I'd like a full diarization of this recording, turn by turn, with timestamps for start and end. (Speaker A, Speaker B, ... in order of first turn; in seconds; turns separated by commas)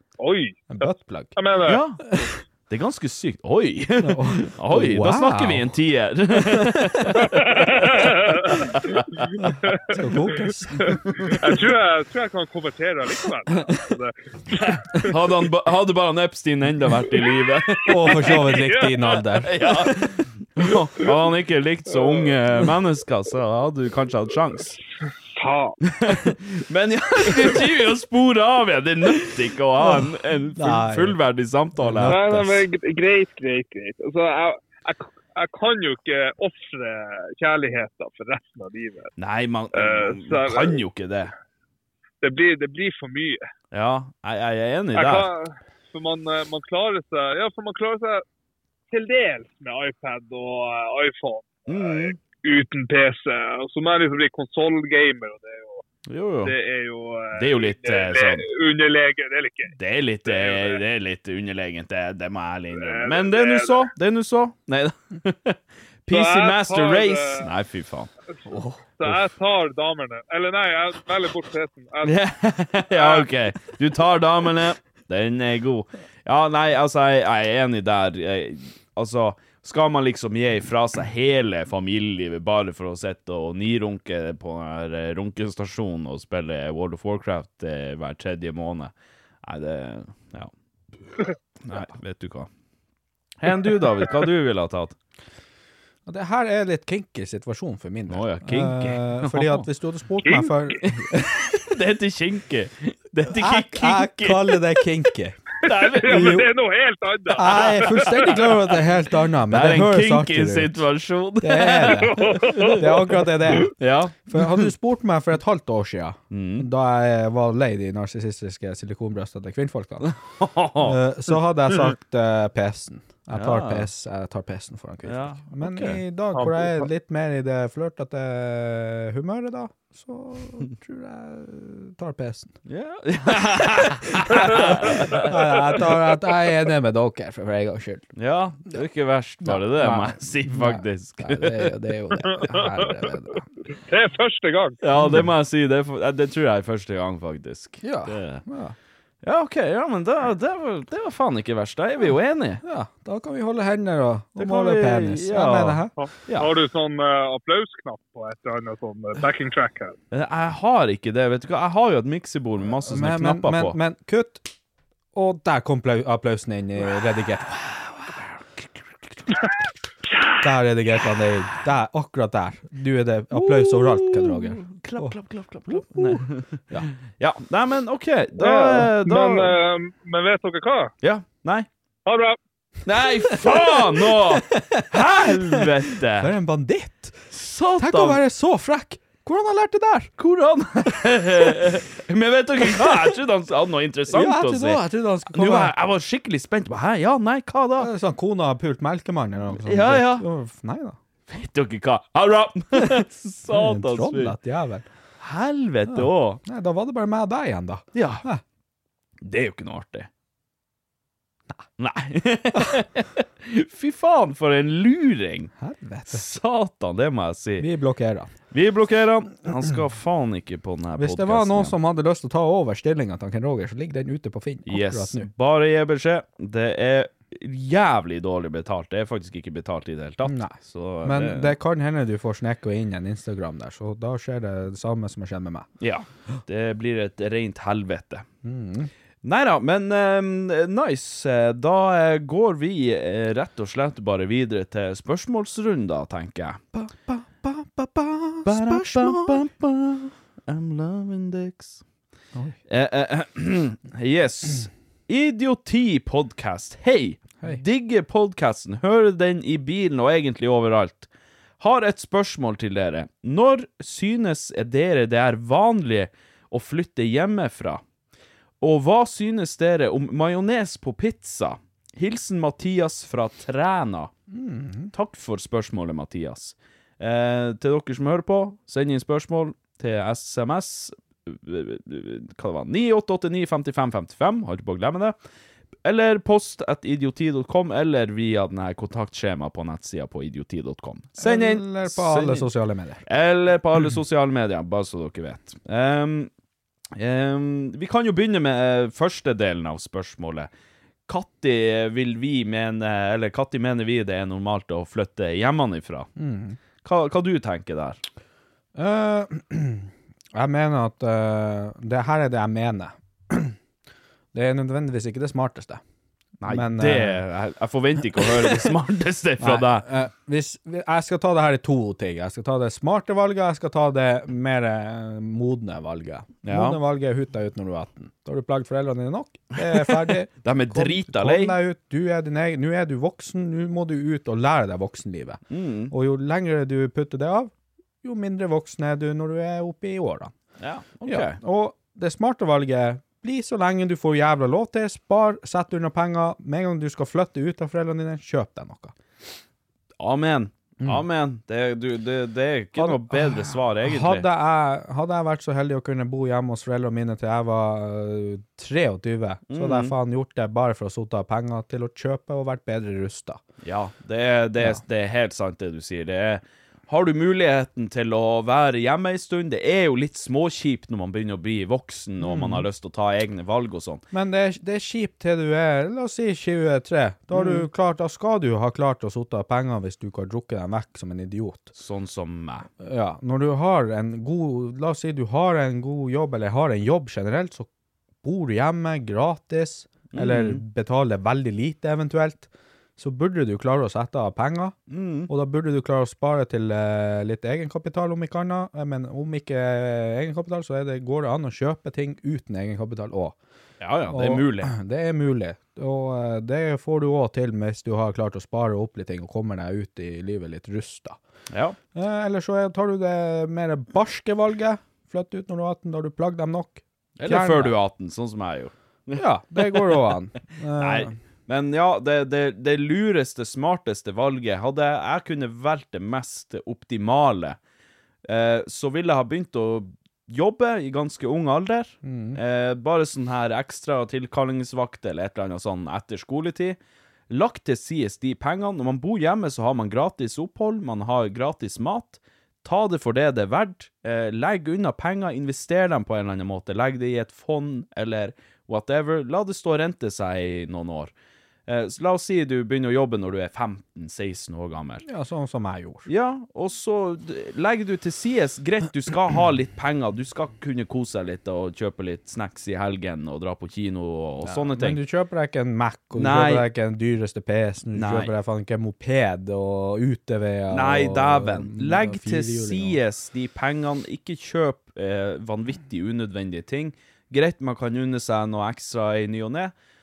Speaker A: 0.2-1.8, Speaker B: 0.7-1.4, Speaker C: 1.6-9.3, Speaker B: 4.0-5.8, Speaker B: 6.4-7.2, Speaker A: 7.3-8.9, Speaker B: 9.4-11.3, Speaker A: 9.6-15.1, Speaker C: 14.9-18.4, Speaker A: 17.8-19.2, Speaker B: 17.9-19.7, Speaker C: 19.4-24.8, Speaker A: 22.0-22.4, Speaker A: 25.3-25.8, Speaker C: 25.8-32.3, Speaker B: 29.8-31.1, Speaker B: 31.8-32.6, Speaker A: 32.0-39.1, Speaker C: 39.2-41.3, Speaker A: 39.7-40.8, Speaker A: 42.2-43.4, Speaker C: 43.7-45.3, Speaker A: 44.9-48.2, Speaker A: 48.9-55.8, Speaker C: 51.7-52.2, Speaker C: 56.1-56.5, Speaker A: 56.4-60.8, Speaker C: 57.4-58.4, Speaker C: 59.8-69.1, Speaker A: 62.7-63.9, Speaker A: 66.1-67.5, Speaker A: 69.0-72.2, Speaker C: 72.0-88.9, Speaker A: 72.9-73.3, Speaker C: 89.4-90.5, Speaker C: 91.6-92.5, Speaker C: 93.4-95.0, Speaker B: 96.0-101.5, Speaker C: 98.1-99.7, Speaker C: 100.8-104.6, Speaker B: 103.2-105.4, Speaker C: 105.6-106.4, Speaker A: 106.0-108.4, Speaker B: 106.0-106.5, Speaker B: 107.3-110.8, Speaker C: 107.6-108.4, Speaker C: 109.5-114.7, Speaker B: 111.4-113.7, Speaker A: 112.2-112.9, Speaker B: 114.3-120.1, Speaker C: 116.3-116.7, Speaker C: 120.0-121.0, Speaker B: 120.8-132.6, Speaker C: 123.3-123.9, Speaker C: 125.0-126.0, Speaker A: 126.3-126.7, Speaker C: 132.7-135.4, Speaker B: 133.8-138.1, Speaker C: 138.2-141.7, Speaker B: 139.4-143.4, Speaker A: 142.4-142.8, Speaker A: 143.8-144.8, Speaker C: 144.8-148.4, Speaker B: 145.0-145.3, Speaker B: 147.8-148.8, Speaker C: 149.2-152.6, Speaker B: 152.6-155.9, Speaker C: 154.4-156.5, Speaker A: 156.0-159.9, Speaker C: 160.1-163.8, Speaker B: 162.8-164.4, Speaker B: 165.1-167.6, Speaker C: 167.6-168.7, Speaker B: 170.4-175.2, Speaker C: 173.3-179.5, Speaker B: 175.7-176.9, Speaker A: 178.4-180.9, Speaker C: 181.0-181.7, Speaker A: 182.1-182.4, Speaker C: 182.8-186.3, Speaker B: 183.2-190.1, Speaker C: 187.3-188.2, Speaker C: 190.2-194.8, Speaker B: 192.8-193.1, Speaker B: 194.1-195.7, Speaker C: 195.3-197.9, Speaker B: 197.8-201.0, Speaker C: 199.6-200.3, Speaker C: 201.3-204.3, Speaker B: 202.8-204.9, Speaker C: 205.2-206.4, Speaker B: 205.9-208.4, Speaker C: 207.9-208.2, Speaker C: 209.2-210.1, Speaker C: 211.8-215.5, Speaker B: 215.6-216.2, Speaker C: 216.1-217.7, Speaker B: 217.6-218.3, Speaker C: 218.5-221.7, Speaker B: 221.0-225.3, Speaker C: 224.7-231.5, Speaker B: 230.2-235.7, Speaker C: 235.8-238.2, Speaker B: 238.4-238.9, Speaker C: 239.2-246.6, Speaker B: 246.7-249.4, Speaker C: 248.4-251.8, Speaker C: 252.7-267.8, Speaker C: 268.6-274.1, Speaker B: 274.3-274.9, Speaker C: 274.9-285.1, Speaker C: 285.8-292.5, Speaker B: 291.2-293.0, Speaker C: 293.1-296.3, Speaker C: 296.9-300.5, Speaker C: 301.1-306.1, Speaker B: 306.2-306.6, Speaker C: 306.8-308.0, Speaker B: 308.7-313.6, Speaker B: 314.3-315.8, Speaker C: 316.4-319.9, Speaker B: 316.4-317.2, Speaker B: 318.2-318.7, Speaker B: 319.4-337.5, Speaker C: 326.4-326.8, Speaker C: 329.7-331.6, Speaker C: 335.5-335.9, Speaker B: 338.0-340.3, Speaker C: 340.6-341.4, Speaker B: 341.0-348.9, Speaker C: 350.0-354.2, Speaker B: 352.8-363.4, Speaker C: 359.5-359.9, Speaker C: 363.6-374.0, Speaker B: 372.2-372.7, Speaker B: 374.1-381.7, Speaker C: 377.3-377.6, Speaker C: 381.7-382.7, Speaker B: 382.8-387.7, Speaker B: 388.2-394.7, Speaker C: 390.1-390.6, Speaker C: 394.9-395.3, Speaker B: 395.3-403.4, Speaker C: 403.8-404.7, Speaker B: 404.1-411.2, Speaker C: 411.5-411.8, Speaker B: 411.9-417.7, Speaker C: 417.2-420.0, Speaker B: 419.1-421.1, Speaker C: 420.8-427.6, Speaker C: 428.2-436.8, Speaker B: 432.0-432.4, Speaker C: 437.3-451.1, Speaker C: 451.7-455.0, Speaker B: 455.0-456.1, Speaker C: 456.1-465.0, Speaker B: 464.4-473.0, Speaker C: 466.1-466.6, Speaker C: 467.9-468.3, Speaker C: 470.7-479.7